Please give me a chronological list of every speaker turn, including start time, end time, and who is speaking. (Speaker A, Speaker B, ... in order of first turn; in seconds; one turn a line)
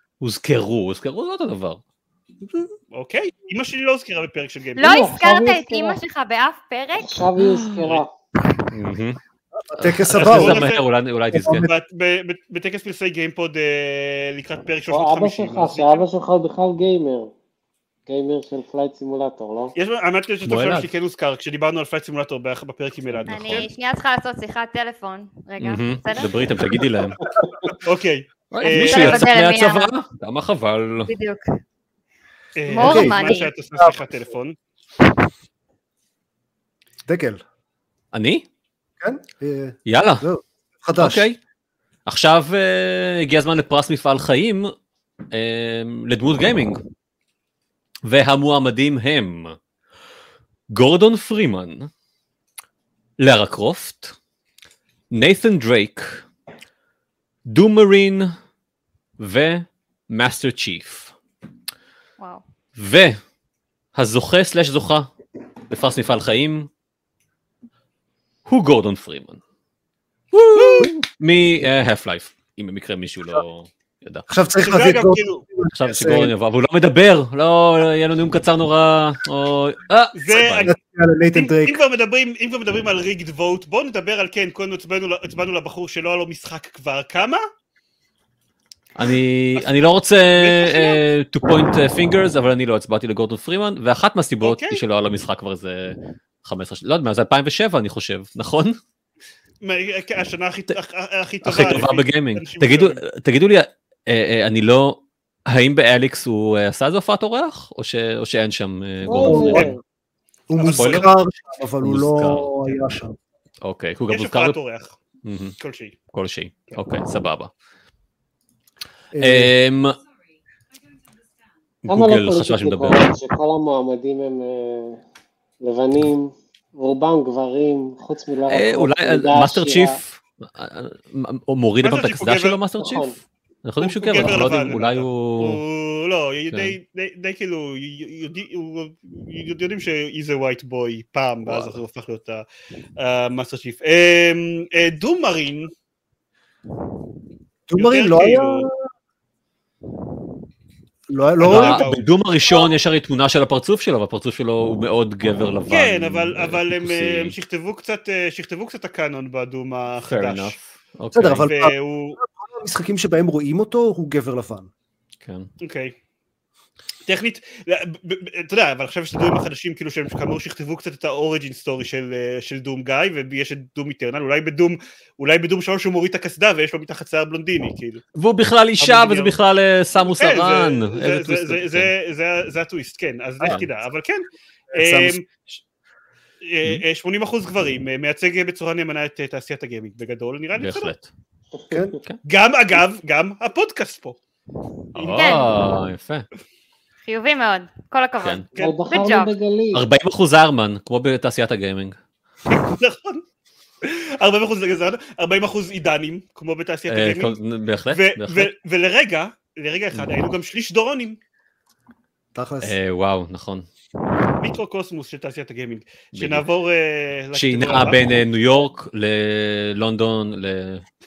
Speaker A: 0.2-1.8
Speaker B: 2.9-5.0
Speaker C: 4.8-7.1
Speaker D: 4.8-6.0
Speaker D: 7.0-8.1
Speaker A: 7.4-8.0
Speaker A: 8.7-9.2
Speaker E: 9.6-10.7
Speaker A: 9.8-11.7
Speaker B: 10.1-10.8
Speaker E: 11.3-11.7
Speaker B: 11.6-16.1
Speaker D: 14.9-17.3
Speaker D: 18.1-19.7
Speaker B: 19.8-23.7
Speaker A: 20.4-20.9
Speaker A: 23.1-23.7
Speaker C: 23.3-26.3
Speaker A: 25.6-27.2
Speaker B: 27.8-29.2
Speaker A: 28.5-31.1
Speaker C: 28.6-29.9
Speaker C: 31.0-31.4
Speaker B: 32.6-34.5
Speaker C: 32.7-33.5
Speaker E: 32.8-34.0
Speaker E: 37.1-37.4
Speaker A: 38.1-38.4
Speaker E: 39.0-41.2
Speaker A: 39.9-40.2
Speaker A: 41.0-41.4
Speaker A: 42.0-44.7
Speaker A: 45.3-46.8
Speaker A: 48.0-49.6
Speaker A: 50.7-51.9
Speaker A: 53.2-54.1
Speaker A: 55.1-56.2
Speaker A: 57.5-58.3
Speaker A: 59.2-61.1
Speaker A: 62.8-63.2
Speaker A: 63.9-65.1
Speaker A: 65.7-66.7
Speaker A: 68.5-69.4
Speaker A: 70.3-74.2
Speaker E: 74.3-76.3
Speaker B: 74.6-75.4
Speaker A: 75.7-80.7
Speaker B: 80.1-80.7
Speaker E: 80.6-81.8
Speaker B: 81.3-87.4
Speaker A: 89.0-98.8
Speaker B: 90.3-91.0
Speaker B: 94.4-94.8
Speaker B: 99.6-103.0
Speaker A: 101.4-109.7
Speaker D: 109.0-109.8
Speaker E: 109.2-109.8
Speaker E: 110.5-113.2
Speaker B: 110.5-111.1
Speaker A: 110.7-111.1
Speaker A: 111.8-112.5
Speaker A: 113.6-114.6
Speaker B: 114.1-115.0
Speaker A: 115.2-115.5
Speaker B: 115.6-116.0
Speaker A: 116.1-117.5
Speaker E: 119.1-119.5
Speaker A: 119.2-120.0
Speaker A: 121.8-123.1
Speaker D: 121.9-125.0
Speaker D: 125.6-130.0
Speaker A: 128.5-135.6
Speaker B: 131.8-132.6
Speaker D: 132.8-133.1
Speaker B: 133.8-142.4
Speaker A: 141.4-141.8
Speaker B: 143.0-145.7
Speaker E: 147.7-148.7
Speaker B: 147.8-148.7
Speaker E: 151.1-151.9
Speaker B: 151.4-152.1
Speaker A: 151.5-157.3
Speaker B: 155.7-160.6
Speaker A: 160.1-161.5
Speaker E: 161.1-164.7
Speaker B: 161.4-162.2
Speaker A: 165.2-165.5
Speaker B: 165.6-165.9
Speaker B: 167.1-178.0
Speaker A: 178.2-181.9
Speaker B: 178.8-179.3
Speaker B: 180.0-185.6
Speaker E: 184.7-185.2
Speaker B: 186.4-190.9
Speaker A: 190.5-191.1
Speaker D: 191.6-192.0
Speaker E: 191.7-191.9
Speaker B: 192.2-194.2
Speaker B: 194.9-195.4
Speaker A: 195.0-196.2
Speaker C: 195.1-195.5
Speaker C: 197.0-199.3
Speaker D: 198.6-199.8
Speaker A: 199.7-201.9
Speaker B: 202.5-203.2
Speaker B: 203.8-207.4
Speaker A: 206.9-208.5
Speaker B: 207.9-211.2
Speaker E: 212.3-212.7
Speaker A: 212.6-213.7
Speaker B: 214.4-218.0
Speaker A: 216.1-216.4
Speaker A: 217.3-220.8